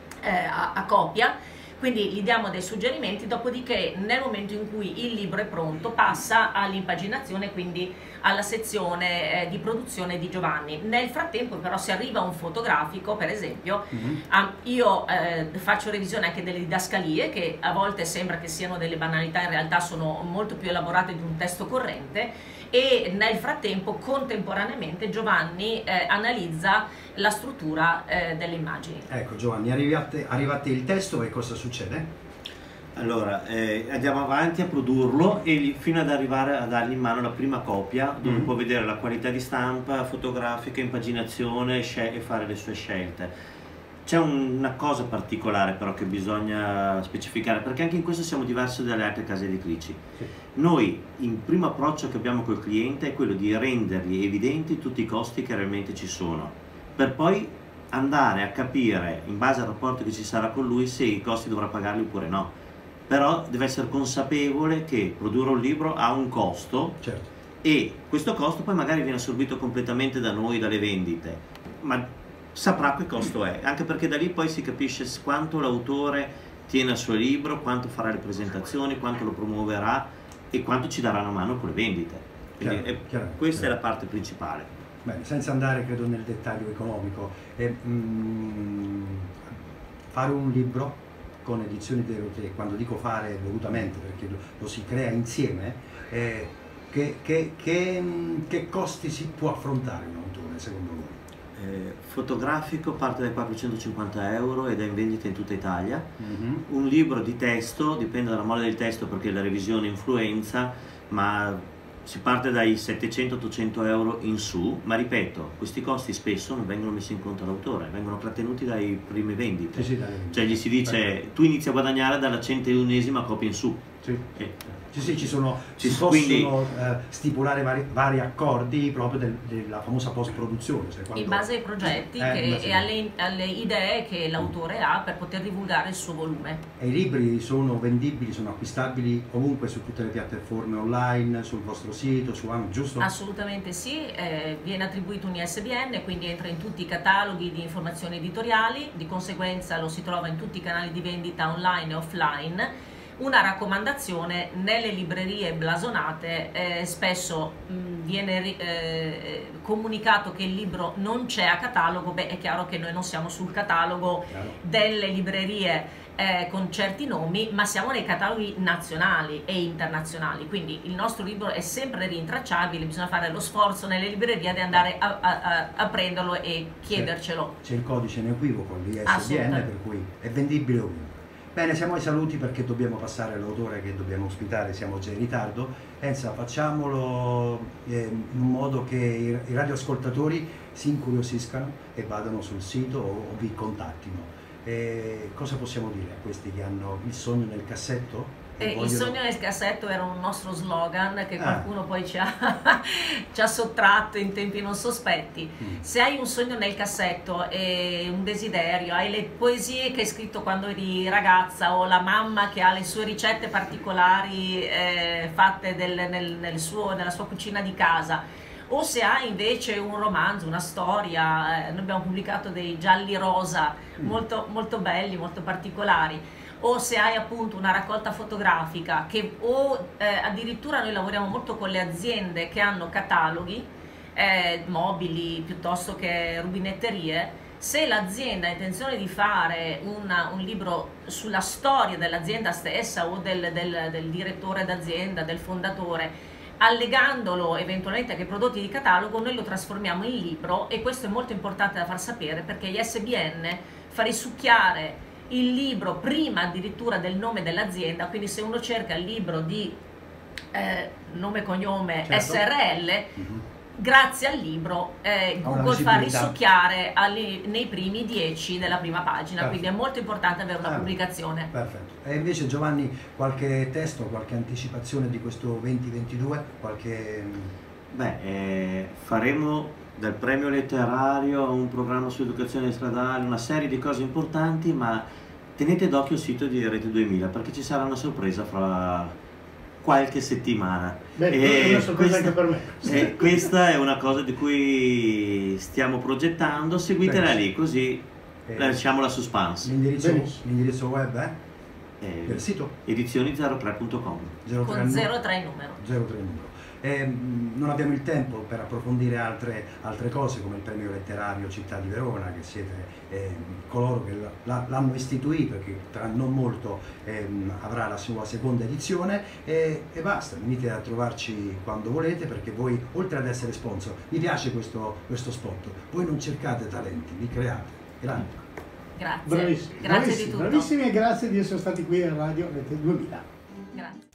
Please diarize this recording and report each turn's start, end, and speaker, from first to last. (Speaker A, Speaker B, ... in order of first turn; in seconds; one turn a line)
Speaker A: 0.2-29.1
Speaker B: 13.9-14.2
Speaker B: 29.1-32.1
Speaker C: 33.0-43.3
Speaker B: 38.2-38.5
Speaker C: 44.1-50.0
Speaker C: 50.5-62.5
Speaker C: 63.1-67.0
Speaker C: 67.6-84.7
Speaker B: 82.6-83.7
Speaker B: 85.0-89.6
Speaker B: 90.1-101.2
Speaker C: 101.6-106.1
Speaker B: 106.2-106.7
Speaker C: 106.7-126.6
Speaker B: 119.7-121.0
Speaker B: 124.9-132.9
Speaker A: 131.2-136.6
Speaker B: 136.8-143.1
Speaker A: 143.0-177.5
Speaker B: 164.3-164.6
Speaker B: 177.6-199.2
Speaker A: 179.1-179.7
Speaker A: 198.6-259.8
Speaker B: 201.4-201.7
Speaker A: 260.5-263.2
Speaker B: 262.1-262.4
Speaker B: 263.2-263.4
Speaker A: 263.8-271.5
Speaker B: 265.4-266.4
Speaker B: 269.4-269.7
Speaker B: 270.6-271.0
Speaker B: 271.5-277.5
Speaker C: 277.9-285.1
Speaker C: 285.6-289.1
Speaker C: 289.8-298.0
Speaker D: 291.2-293.5
Speaker B: 297.0-297.4
Speaker B: 298.5-298.8
Speaker C: 298.6-299.7
Speaker B: 299.6-301.4
Speaker D: 300.0-300.4
Speaker C: 302.0-304.4
Speaker B: 302.3-302.7
Speaker B: 304.4-305.1
Speaker A: 304.6-305.8
Speaker B: 305.8-328.5
Speaker A: 329.0-330.7
Speaker D: 329.2-333.3